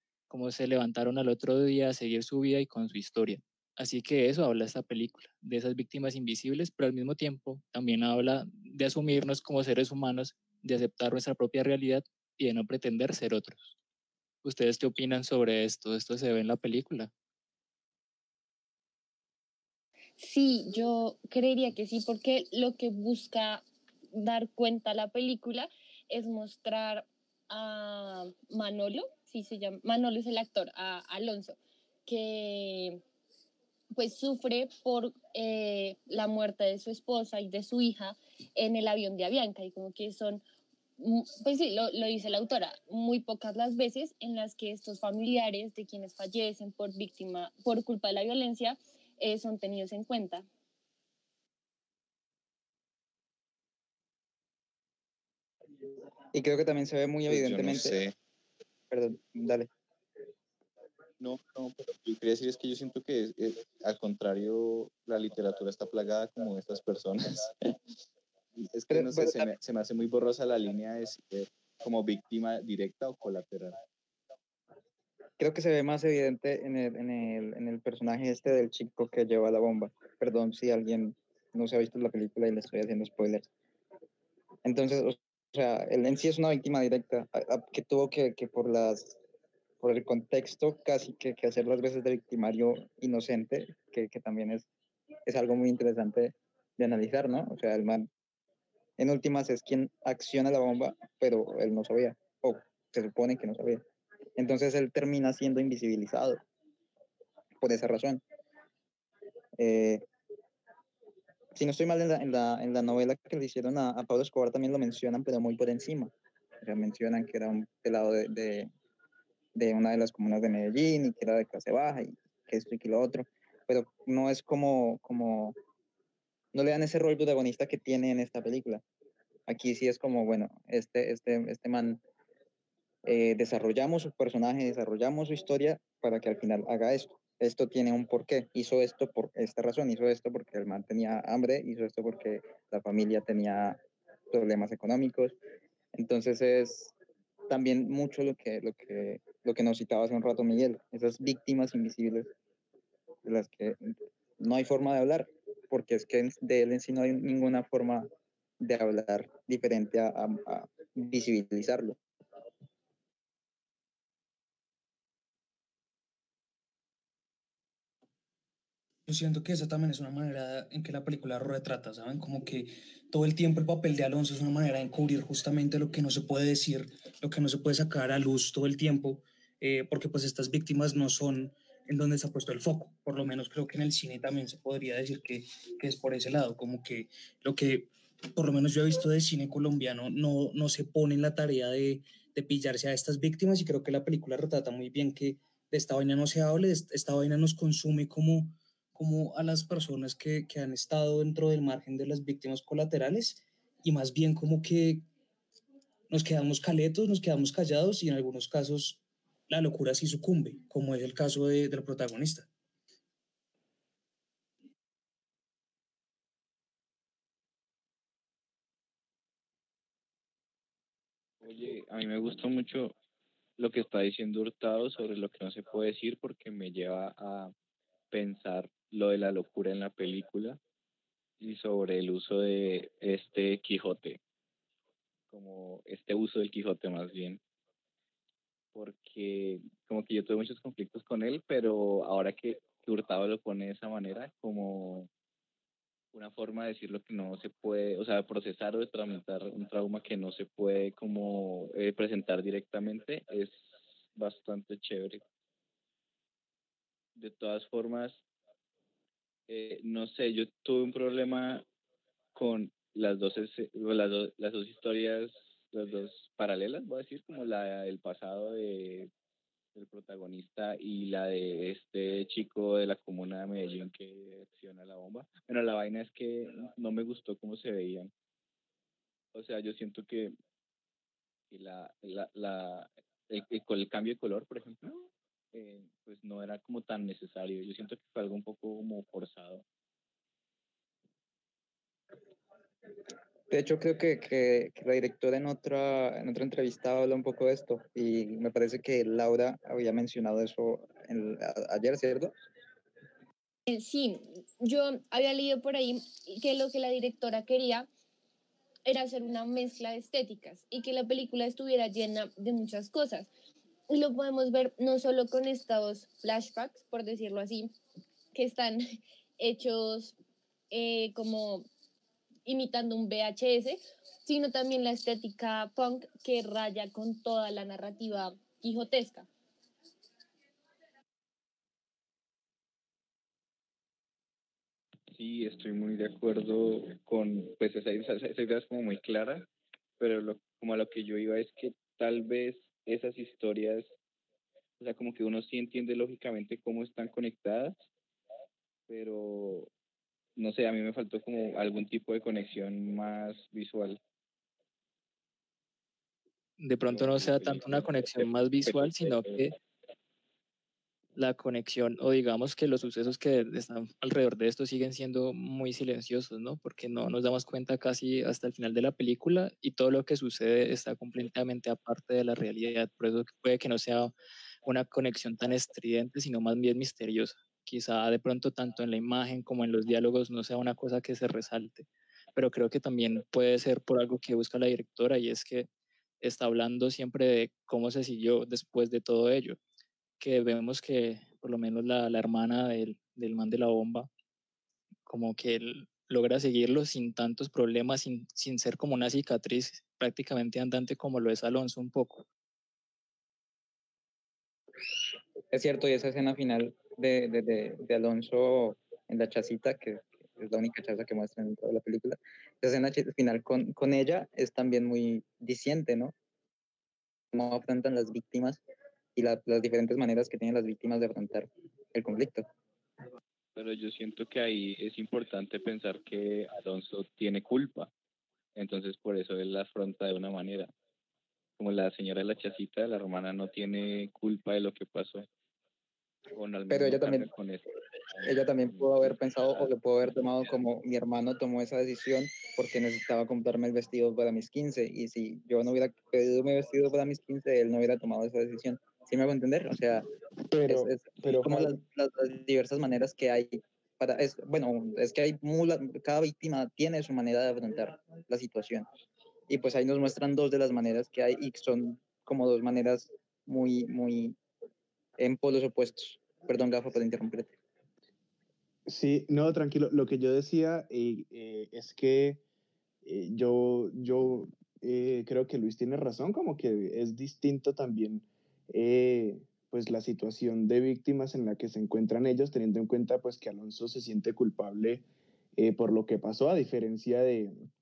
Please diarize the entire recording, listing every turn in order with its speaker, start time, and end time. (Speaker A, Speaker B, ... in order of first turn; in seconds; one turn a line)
Speaker A: 0.3-13.8
Speaker A: 14.4-17.1
Speaker B: 20.2-33.0
Speaker B: 34.0-40.4
Speaker B: 41.0-50.5
Speaker C: 56.3-58.0
Speaker D: 57.3-58.1
Speaker C: 58.9-59.7
Speaker D: 61.2-67.5
Speaker D: 68.6-73.8
Speaker C: 68.9-69.5
Speaker C: 75.4-83.5
Speaker C: 84.6-89.2
Speaker C: 89.8-94.7
Speaker C: 95.3-98.1
Speaker C: 99.0-103.8
Speaker C: 104.4-106.4
Speaker C: 107.6-108.2
Speaker C: 109.6-110.1
Speaker C: 111.5-118.7
Speaker C: 119.5-125.6
Speaker C: 126.5-128.8
Speaker C: 129.5-132.0
Speaker C: 133.1-143.8
Speaker C: 144.3-145.4
Speaker C: 145.9-146.9
Speaker C: 147.5-152.3
Speaker C: 153.2-162.0
Speaker E: 169.1-205.1
Speaker E: 206.1-212.5
Speaker D: 221.4-222.9
Speaker D: 223.6-227.5
Speaker D: 228.1-230.6
Speaker D: 231.4-234.2
Speaker D: 235.3-237.4
Speaker D: 238.7-245.1
Speaker D: 246.1-255.2
Speaker D: 257.2-258.2
Speaker D: 259.5-261.7
Speaker D: 262.4-269.1
Speaker D: 269.8-278.1
Speaker D: 279.3-280.4
Speaker D: 281.5-289.6
Speaker C: 293.5-302.3
Speaker B: 303.7-307.9
Speaker B: 308.9-313.3
Speaker B: 313.9-317.7
Speaker B: 318.3-320.2
Speaker B: 320.7-321.7
Speaker B: 322.4-329.3
Speaker D: 335.1-343.9
Speaker D: 344.8-347.8
Speaker D: 348.9-349.7
Speaker D: 350.4-354.0
Speaker A: 356.6-359.6
Speaker D: 356.8-359.5
Speaker A: 361.2-374.1
Speaker A: 374.6-385.7
Speaker A: 386.2-389.6
Speaker A: 390.2-394.1
Speaker A: 395.1-402.2
Speaker C: 405.5-416.1
Speaker C: 417.3-418.6
Speaker C: 419.2-422.5
Speaker D: 423.6-427.9
Speaker D: 428.6-430.7
Speaker D: 431.6-435.3
Speaker D: 436.3-439.2
Speaker C: 436.7-437.3
Speaker C: 438.2-450.1
Speaker F: 450.5-451.8
Speaker C: 450.7-458.9
Speaker C: 459.5-464.4
Speaker C: 465.2-467.5
Speaker F: 468.9-472.4
Speaker F: 473.0-485.0
Speaker F: 485.6-487.5